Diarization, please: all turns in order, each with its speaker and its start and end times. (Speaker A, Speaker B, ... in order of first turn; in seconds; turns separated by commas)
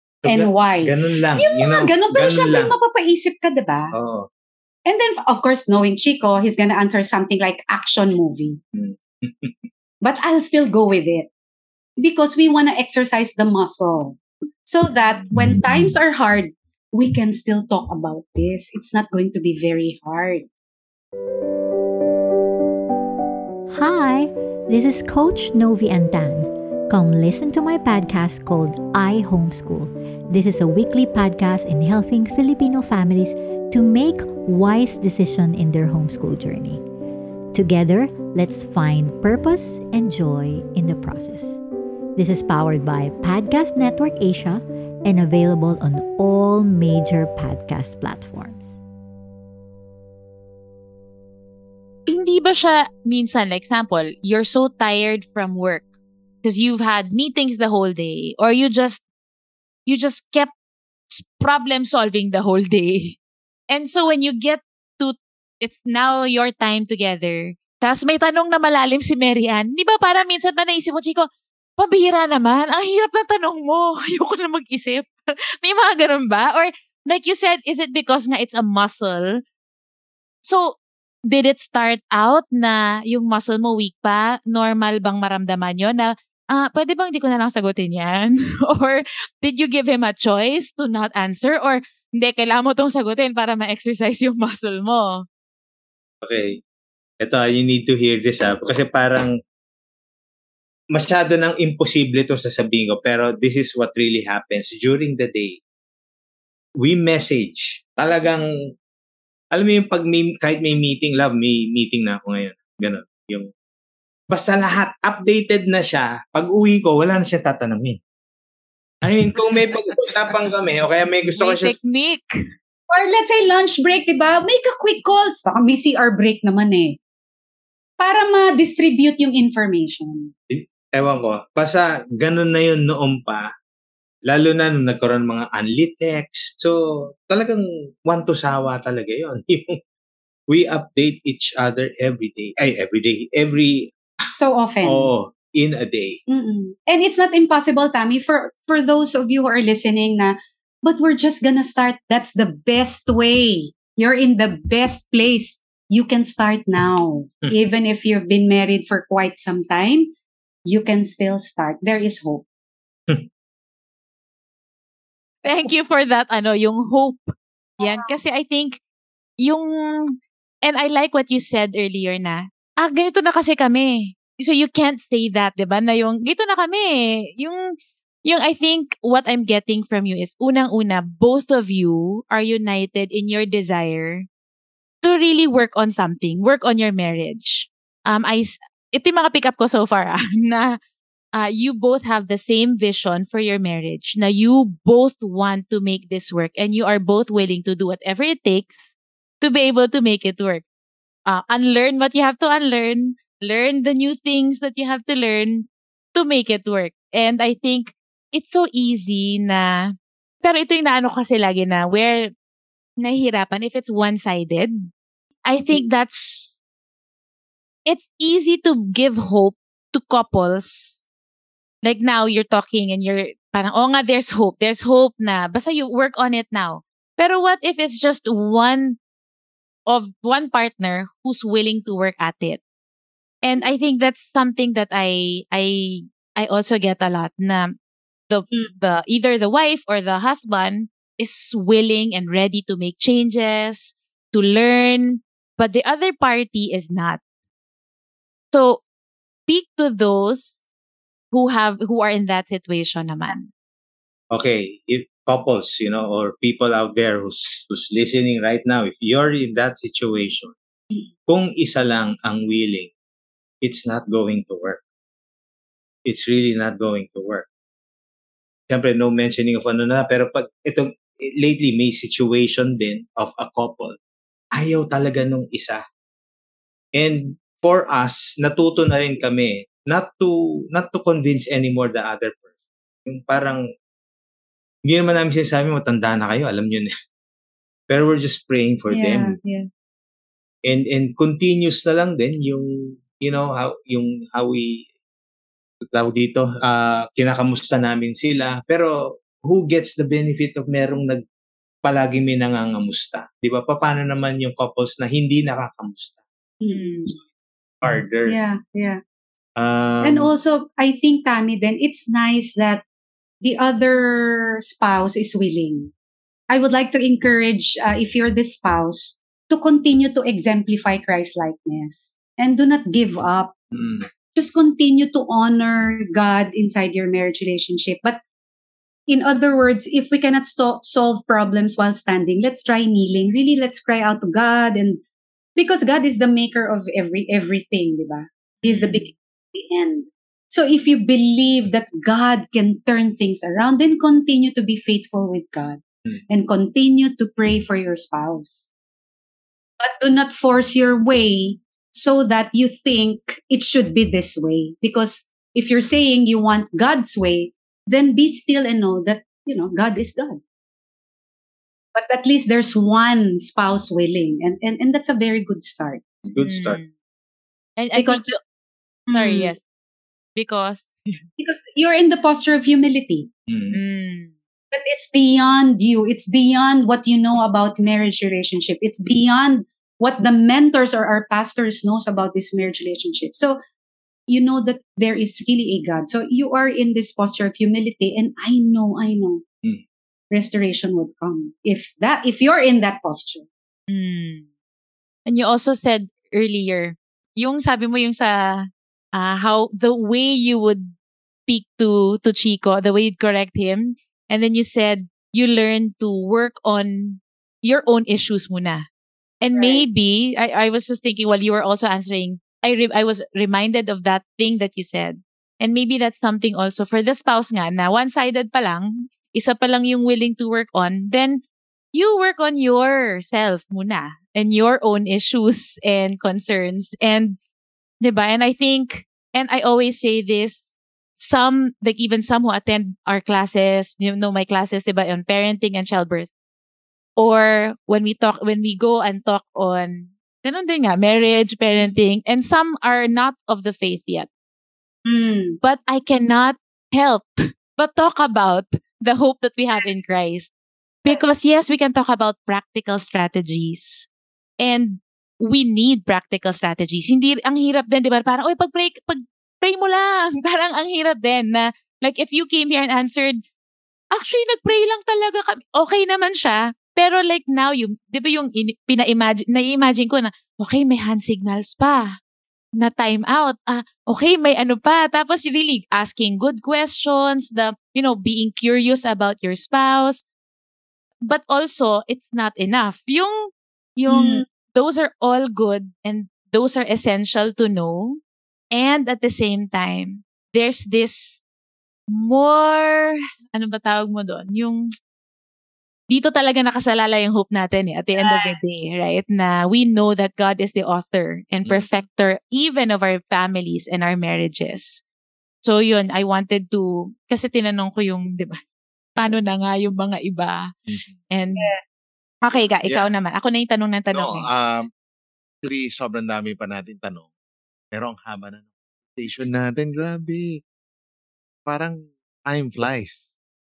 Speaker A: 0.2-2.7, Speaker B: 0.2-3.9, Speaker A: 3.9-4.3, Speaker B: 4.8-8.6, Speaker A: 8.7-9.5, Speaker B: 10.0-11.3, Speaker B: 12.0-20.5, Speaker C: 23.7-36.8, Speaker C: 37.5-41.6, Speaker C: 42.2-48.7, Speaker D: 52.1-55.9, Speaker D: 56.4-59.0, Speaker D: 59.9-60.5, Speaker D: 61.1-63.2, Speaker D: 63.7-79.4, Speaker D: 80.4-95.2, Speaker A: 96.2-96.6, Speaker A: 97.2-99.3, Speaker A: 100.9-105.6, Speaker A: 106.8-108.5, Speaker A: 109.5-113.5, Speaker A: 114.3-118.0, Speaker A: 119.0-121.8, Speaker D: 121.4-122.3, Speaker B: 122.9-127.0, Speaker B: 128.0-130.3, Speaker A: 130.5-133.4, Speaker A: 134.3-136.8, Speaker A: 137.3-139.8, Speaker A: 140.5-143.9, Speaker B: 144.3-145.1, Speaker A: 144.8-146.2, Speaker B: 146.3-160.1, Speaker B: 160.7-162.4, Speaker D: 165.4-168.8, Speaker D: 169.4-177.7, Speaker D: 178.2-184.3, Speaker D: 185.0-190.8, Speaker D: 191.3-200.6, Speaker D: 201.3-212.3, Speaker D: 213.0-214.9, Speaker D: 215.4-216.5, Speaker D: 217.8-221.0, Speaker D: 221.8-229.0, Speaker D: 229.9-232.6, Speaker D: 233.4-237.8, Speaker D: 238.3-247.2, Speaker D: 248.5-248.8, Speaker D: 249.5-250.6, Speaker D: 251.3-253.5, Speaker A: 254.3-260.5, Speaker A: 261.3-262.9, Speaker A: 263.6-264.8, Speaker A: 266.1-267.4, Speaker A: 268.7-273.9, Speaker A: 274.5-275.8, Speaker A: 276.9-282.4, Speaker A: 283.1-283.6, Speaker A: 284.9-286.9, Speaker A: 287.9-289.4, Speaker B: 288.9-289.7, Speaker A: 290.6-294.8, Speaker A: 295.9-301.2, Speaker A: 301.8-306.2, Speaker B: 306.6-307.1, Speaker A: 307.8-308.4, Speaker B: 308.2-309.0, Speaker A: 309.6-310.3, Speaker B: 310.0-312.8, Speaker B: 313.4-315.9, Speaker B: 316.5-323.5, Speaker A: 323.7-324.0, Speaker B: 324.3-328.2, Speaker B: 329.1-335.0, Speaker B: 335.6-348.6, Speaker A: 338.7-339.0, Speaker B: 349.8-360.4, Speaker B: 361.9-366.0, Speaker A: 366.3-366.8, Speaker D: 366.4-366.9, Speaker D: 367.8-368.4, Speaker B: 367.9-368.3, Speaker B: 369.1-369.5, Speaker D: 369.1-369.6, Speaker D: 370.4-371.2, Speaker B: 371.4-373.3, Speaker A: 373.5-373.8, Speaker D: 373.7-374.3, Speaker B: 374.7-383.6, Speaker B: 384.3-389.4, Speaker B: 390.3-393.5, Speaker D: 393.9-394.5, Speaker D: 395.3-400.9, Speaker D: 401.5-408.9, Speaker D: 409.4-421.4, Speaker B: 409.5-409.8, Speaker D: 421.9-427.4, Speaker D: 428.0-430.6, Speaker D: 431.2-436.3, Speaker D: 437.2-444.3, Speaker B: 445.1-445.6, Speaker D: 445.6-450.5, Speaker D: 451.0-454.1, Speaker D: 454.6-463.4, Speaker D: 464.1-472.1, Speaker D: 472.8-480.2, Speaker D: 481.2-488.2, Speaker B: 484.1-484.4, Speaker D: 488.7-491.4, Speaker D: 492.1-494.8, Speaker D: 496.1-505.0, Speaker B: 498.2-498.6, Speaker D: 505.6-508.6, Speaker D: 509.1-510.7, Speaker D: 511.3-511.7, Speaker D: 512.4-514.5, Speaker E: 514.1-514.9, Speaker E: 515.6-517.3, Speaker E: 517.9-520.6, Speaker E: 521.6-523.3